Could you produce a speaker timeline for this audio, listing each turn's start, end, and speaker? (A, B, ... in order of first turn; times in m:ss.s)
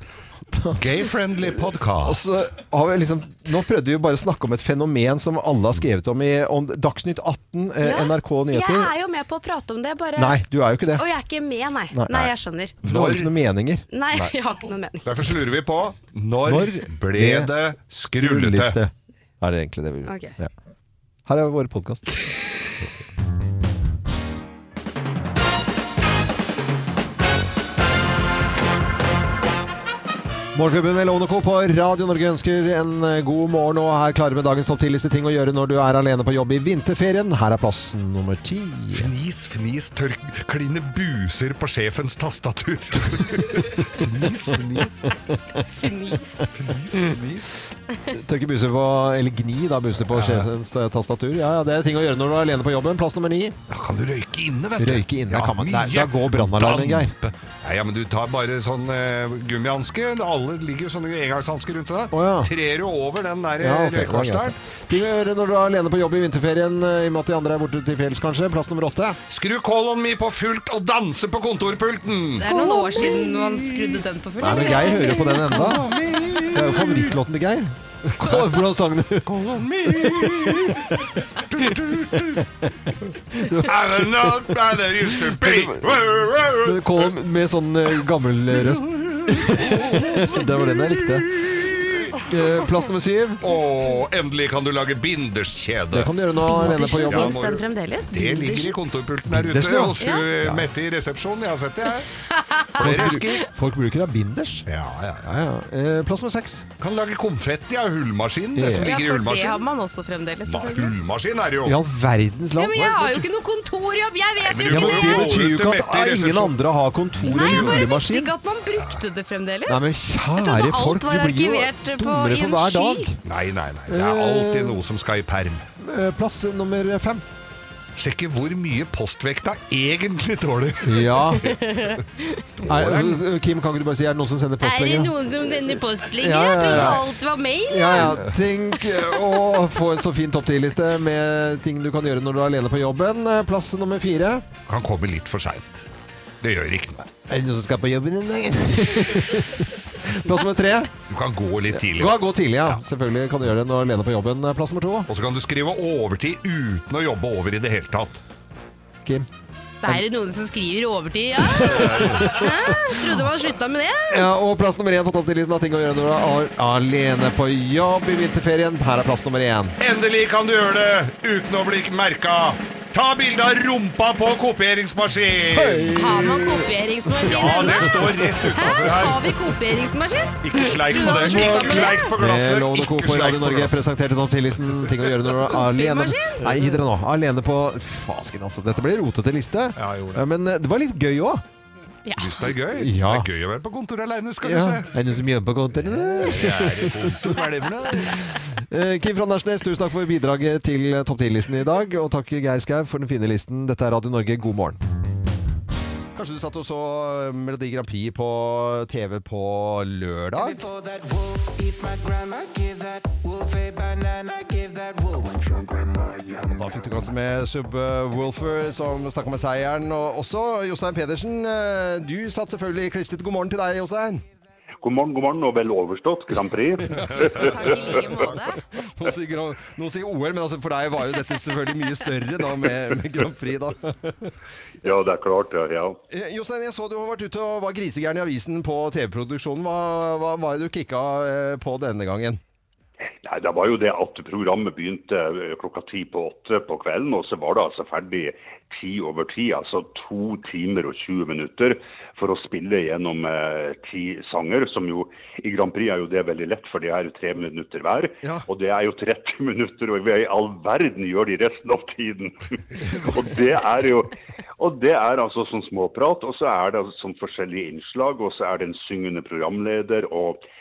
0:00.5-0:00.8 A
0:00.8-0:02.4 B
0:01.6-0:08.9 A
0:07.8-0:10.4 C
0:10.2-0:11.0 A
0:11.0-0:12.8 C
0:11.9-0:14.3 A
0:12.8-0:13.4 B
0:13.9-0:15.1 C
0:15.0-0:18.8 B
0:16.5-0:17.5 A
0:18.2-0:20.5 A
0:20.1-0:20.4 C
0:21.3-0:22.0 A
0:30.5-0:39.1 A
0:38.9-0:45.1 B
0:44.0-0:44.6 A
0:45.8-0:46.5 C
0:46.6-0:47.5 B
0:48.1-0:53.6 A
0:50.1-0:50.5 B
0:53.7-1:04.5 B
0:54.8-0:57.1 A
1:02.1-1:02.5 A
1:03.6-1:09.2 A
1:09.3-1:14.0 B
1:12.4-1:15.7 C
1:12.7-1:13.0 A
1:14.4-1:15.9 A
1:15.5-1:17.2 B
1:16.5-1:22.7 A
1:18.2-1:18.6 B
1:19.3-1:22.4 B
1:23.3-1:31.3 A
1:23.6-1:27.1 B
1:29.3-1:32.2 B
1:32.2-1:33.4 A
1:33.4-1:42.1 B
1:35.9-1:37.4 A
1:36.4-1:38.7 C
1:39.3-1:40.7 A
1:42.4-1:43.2 C
1:42.7-1:43.5 B
1:42.8-1:44.7 A
1:44.7-1:45.3 B
1:45.2-1:46.7 A
1:46.8-1:49.6 B
1:48.6-1:48.9 A
1:48.8-1:50.9 C
1:50.5-1:51.8 B
1:51.6-1:53.3 A
1:52.6-1:55.2 C
1:54.4-1:56.6 B
1:54.7-1:58.3 A
1:57.2-1:57.9 B
1:57.2-2:03.1 C
1:58.8-1:59.0 B
1:59.7-2:03.2 A
2:03.2-2:05.6 B
2:03.9-2:04.8 A
2:05.8-2:07.2 A
2:08.0-2:11.6 B
2:10.8-2:11.6 A
2:11.4-2:12.5 C
2:12.6-2:15.2 A
2:12.6-2:13.2 B
2:14.6-2:18.2 C
2:16.2-2:17.1 A
2:17.7-2:24.5 A
2:18.0-2:18.3 B
2:24.7-2:25.8 B
2:26.4-2:27.1 B
2:27.2-2:30.9 A
2:31.1-2:32.8 B
2:31.8-2:35.1 A
2:35.1-2:38.2 B
2:39.8-2:44.3 C
2:41.5-2:43.0 A
2:41.5-2:42.5 B
2:44.1-2:49.8 A
2:49.8-2:55.9 B
2:55.5-2:58.8 A
2:56.0-3:00.4 C
2:57.2-2:59.4 B
3:00.4-3:03.8 B
3:00.9-3:02.1 C
3:01.0-3:11.4 A
3:04.9-3:05.2 B
3:05.5-3:06.7 C
3:09.8-3:10.2 B
3:12.1-3:12.3 C
3:12.2-3:15.2 B
3:12.7-3:13.3 A
3:14.4-3:17.4 A
3:15.9-3:18.2 B
3:18.0-3:24.8 A
3:26.2-3:30.6 A
3:30.4-3:36.6 D
3:36.5-3:44.2 A
3:44.8-3:47.5 E
3:47.0-3:54.3 A
3:47.1-3:48.6 C
3:54.8-3:56.0 E
3:56.1-4:02.4 A
4:03.2-4:30.4 E
4:22.8-4:23.2 A